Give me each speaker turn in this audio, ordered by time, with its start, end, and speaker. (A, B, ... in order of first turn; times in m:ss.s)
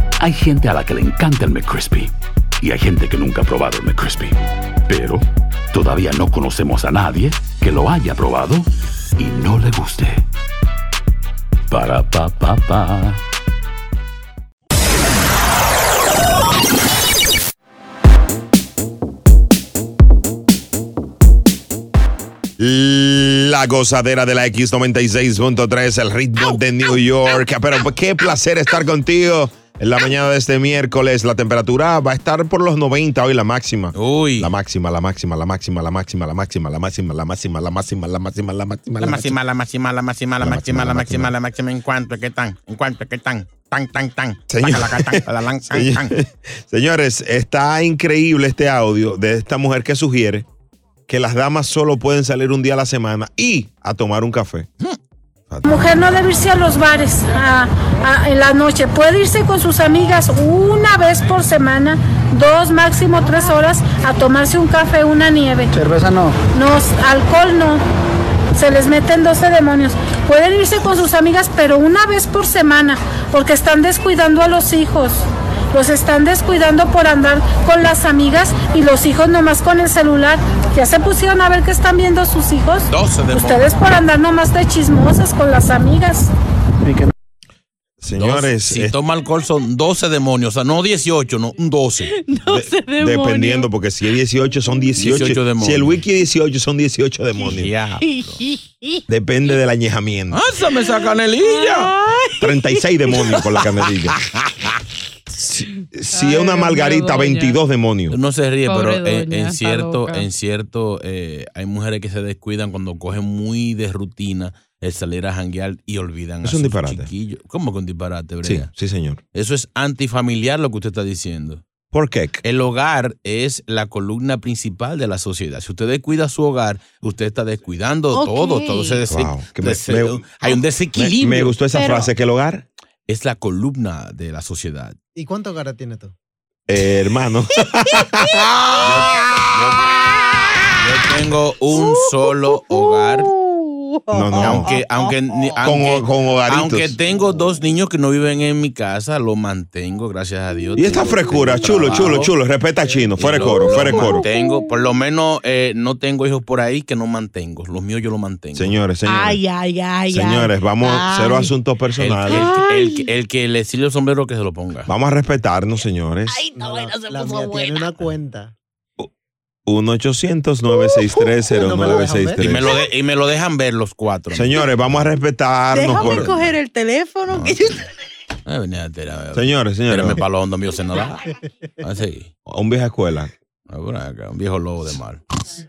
0:00.2-0:10.2 A
0:11.7-0:13.2 A
0:22.6-0:39.4 B
0:34.0-0:34.5 C
0:39.0-0:46.1 C
0:40.4-0:41.3 B
0:44.5-0:50.4 B
0:51.1-0:54.7 B
0:55.5-0:56.1 B
0:55.6-1:05.7 D
1:06.5-1:07.8 D
1:08.6-1:26.3 D
1:22.9-1:23.8 C
1:28.0-1:29.0 B
1:28.1-1:32.1 C
1:32.0-1:33.7 E
1:32.5-1:37.7 B
1:35.0-1:36.0 C
1:37.6-1:38.4 C
1:38.0-1:39.0 E
1:39.1-1:40.4 B
1:40.3-1:41.9 C
1:40.9-1:42.8 E
1:42.4-1:44.2 B
1:43.1-1:44.8 C
1:45.4-1:48.2 B
1:46.1-1:47.6 E
1:48.1-1:58.7 C
1:48.6-1:50.3 E
1:56.4-1:57.1 B
1:58.4-1:59.2 B
1:59.3-2:01.6 C
2:01.9-2:02.4 B
2:02.4-2:11.6 C
2:08.1-2:09.0 E
2:09.1-2:12.6 B
2:11.7-2:12.1 E
2:13.1-2:15.0 C
2:15.2-2:16.1 F
2:16.7-2:19.1 B
2:18.8-2:19.9 C
2:20.8-2:23.3 C
2:21.7-2:25.1 E
2:24.1-2:24.7 B
2:24.3-2:32.3 C
2:25.6-2:27.0 B
2:30.8-2:34.2 B
2:33.2-2:38.8 C
2:33.5-2:34.7 E
2:38.6-2:39.4 B
2:39.0-2:41.5 E
2:40.1-2:42.5 B
2:42.0-2:44.9 C
2:42.3-2:43.1 E
2:44.9-2:46.4 B
2:46.4-2:48.5 F
2:49.6-2:52.7 B
2:51.5-2:52.5 F
2:52.4-2:55.0 C
2:54.3-2:56.4 B
2:55.7-2:57.8 E
2:56.0-2:56.4 C
2:57.3-2:57.7 C
2:58.4-3:02.3 C
2:59.3-3:00.2 B
3:02.4-3:03.3 B
3:03.7-3:05.2 C